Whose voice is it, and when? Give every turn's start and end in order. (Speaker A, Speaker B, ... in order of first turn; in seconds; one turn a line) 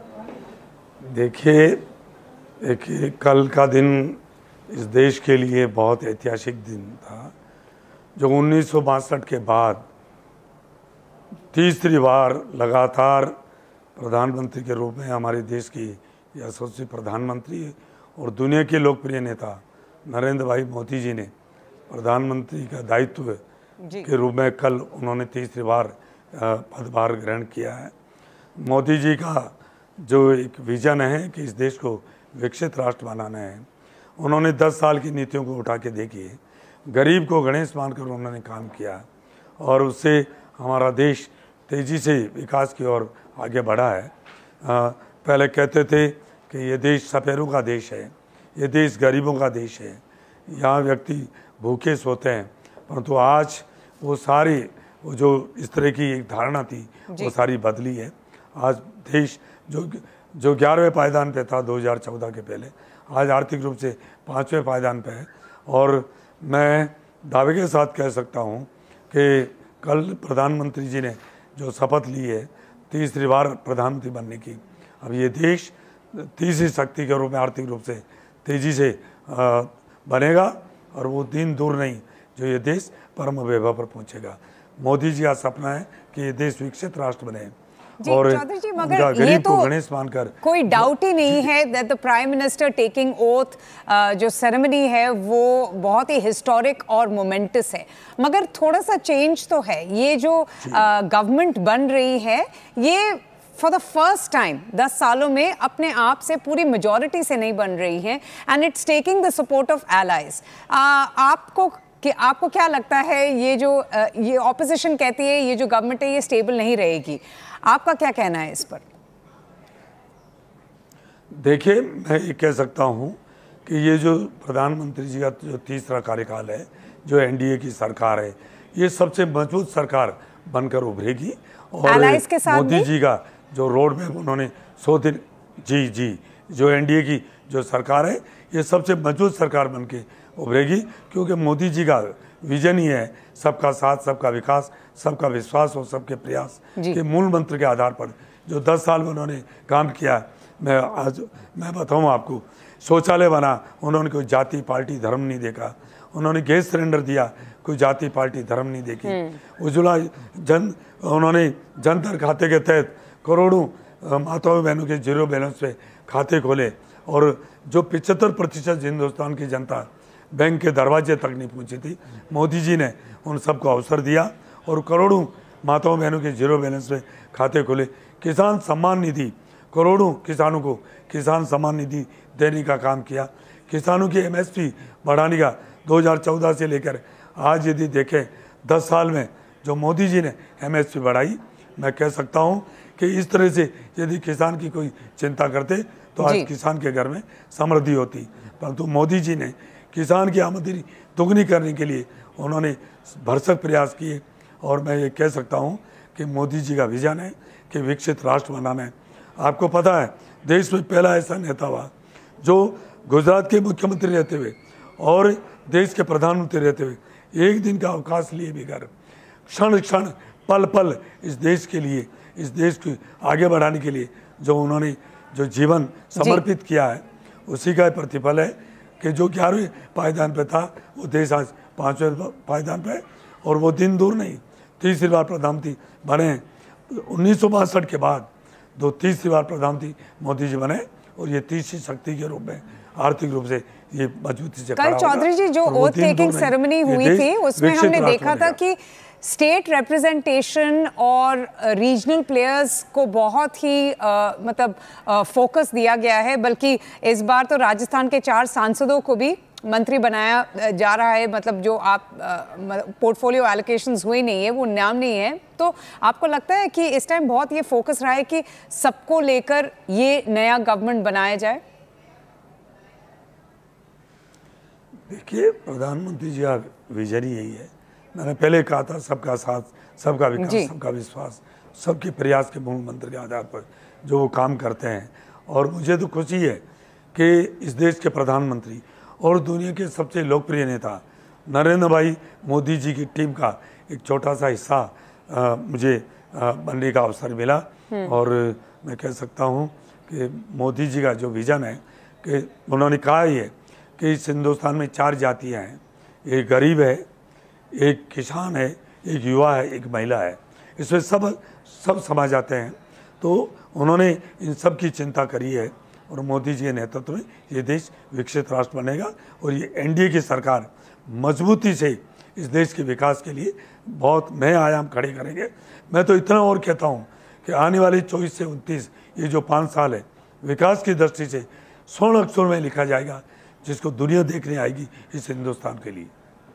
Speaker A: 1.1-1.8
Speaker A: 2.6-7.3
Speaker A: 8.2-9.8
Speaker A: 11.5-13.4
Speaker A: 14.0-21.3
Speaker A: 21.9-23.4
Speaker B: 23.8-24.1
Speaker A: 24.0-27.9
Speaker A: 28.6-33.6
Speaker A: 34.2-39.1
Speaker A: 39.6-44.1
Speaker A: 44.6-87.5
Speaker B: 88.0-89.7
Speaker A: 88.0-91.5
Speaker B: 90.4-118.8
Speaker A: 100.6-100.9
Speaker A: 121.3-218.9
Speaker B: 131.9-132.9
Speaker B: 196.2-196.5
Speaker A: 219.5-248.6
Speaker B: 244.8-271.6
Speaker A: 275.1-286.6
Speaker B: 280.4-280.7
Speaker A: 287.1-307.1
Speaker A: 307.7-336.1